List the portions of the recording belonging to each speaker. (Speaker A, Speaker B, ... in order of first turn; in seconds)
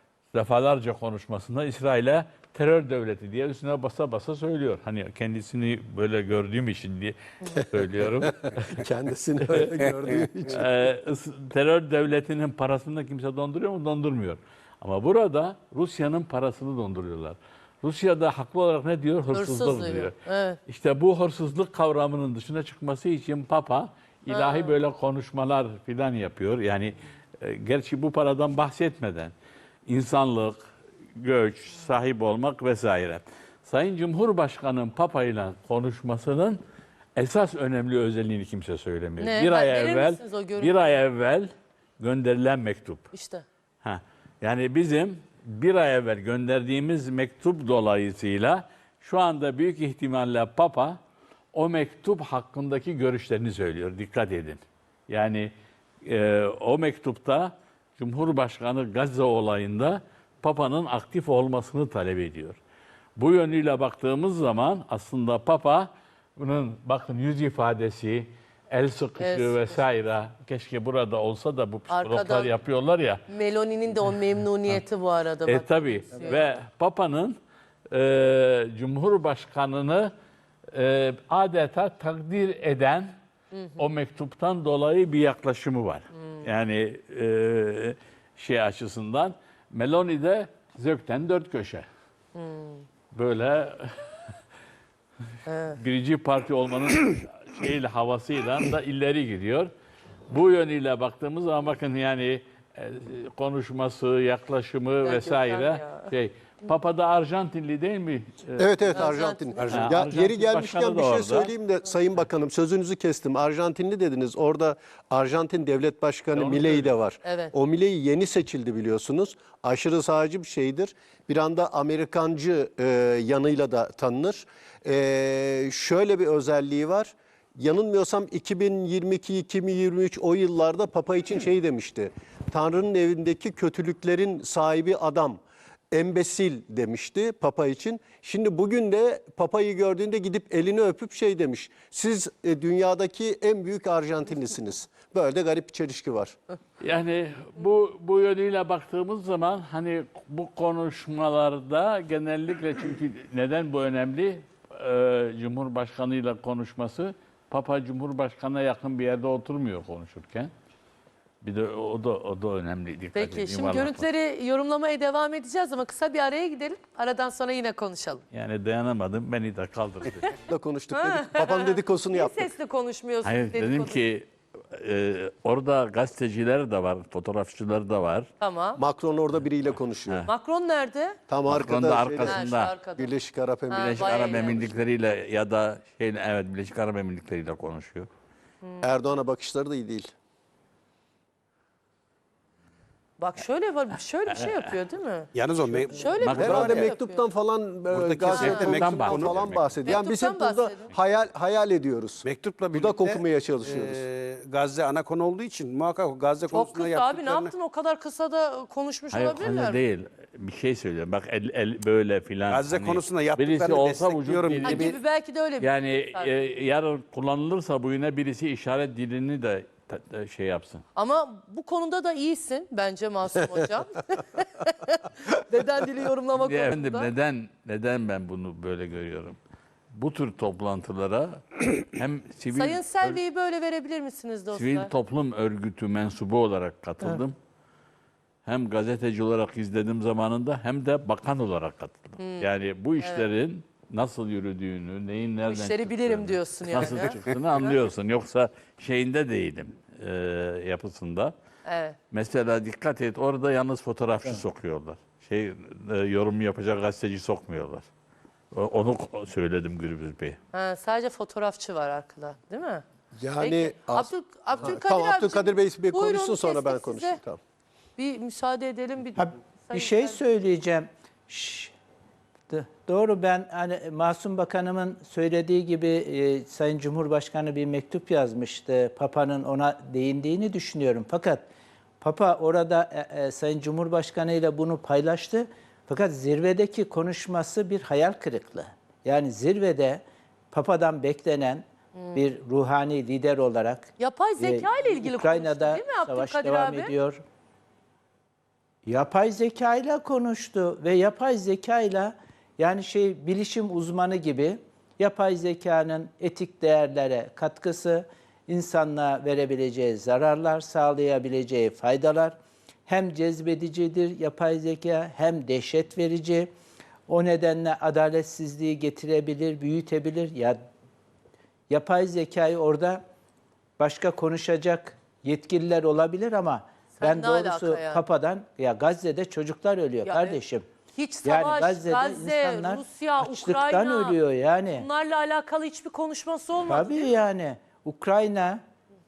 Speaker A: 0.3-8.9, 9.4-20.1, 20.7-29.3, 29.9-30.6, 31.2-36.6, 37.2-43.1, 43.8-51.0, 51.5-55.5, 56.0-62.6, 63.2-73.2, 75.5-77.4, 77.9-80.1, 80.7-83.2, 83.8-91.9, 93.1-94.1, 95.8-99.7, 100.3-109.0, 109.7-111.5, 116.3-116.9, 146.8-160.5, 161.4-164.0, 168.3-170.3, 173.2-178.3, 181.5-182.7, 183.8-188.1, 196.2-196.9, 198.4-200.0, 209.1-215.0, 215.6-220.8, 226.4-229.4, 229.9-233.2, 234.5-237.4, 238.5-251.3, 252.1-257.9, 258.5-260.4
Speaker B: 8.2-10.7, 108.6-146.4, 170.5-172.5, 178.8-180.3, 181.3-184.8, 188.8-190.1, 196.4-204.0, 263.1-267.4
Speaker C: 19.3-20.6, 24.3-24.8, 39.2-40.9, 43.1-43.4, 69.2-69.8, 71.9-72.5, 73.3-76.4, 83.5-83.8, 92.3-92.8, 95.5-95.8, 105.0-106.1, 108.9-109.9, 117.2-117.5, 163.2-168.2, 170.9-174.0, 178.4-178.8, 180.3-181.2, 182.2-183.1, 183.7-184.7, 193.2-195.3, 195.9-197.2, 198.3-198.7, 199.9-200.9, 206.5-209.8, 214.6-216.3, 221.0-227.1, 232.5-234.9, 242.2-242.5, 243.0-243.3, 245.4-247.7, 251.7-252.0, 260.5-262.8, 263.4-267.2, 268.0-270.2, 292.0-292.2, 294.0-296.9, 327.0-328.0, 330.1-330.4, 330.9-334.2, 334.7-337.1
Speaker D: 109.6-109.9, 195.3-196.9, 197.9-199.7, 202.2-207.5, 212.5-214.9
Speaker E: 269.2-271.7, 272.5-281.5, 282.0-297.2, 298.9-316.5, 317.1-320.6, 321.7-323.0, 323.8-330.7, 331.2-334.9, 336.7-338.6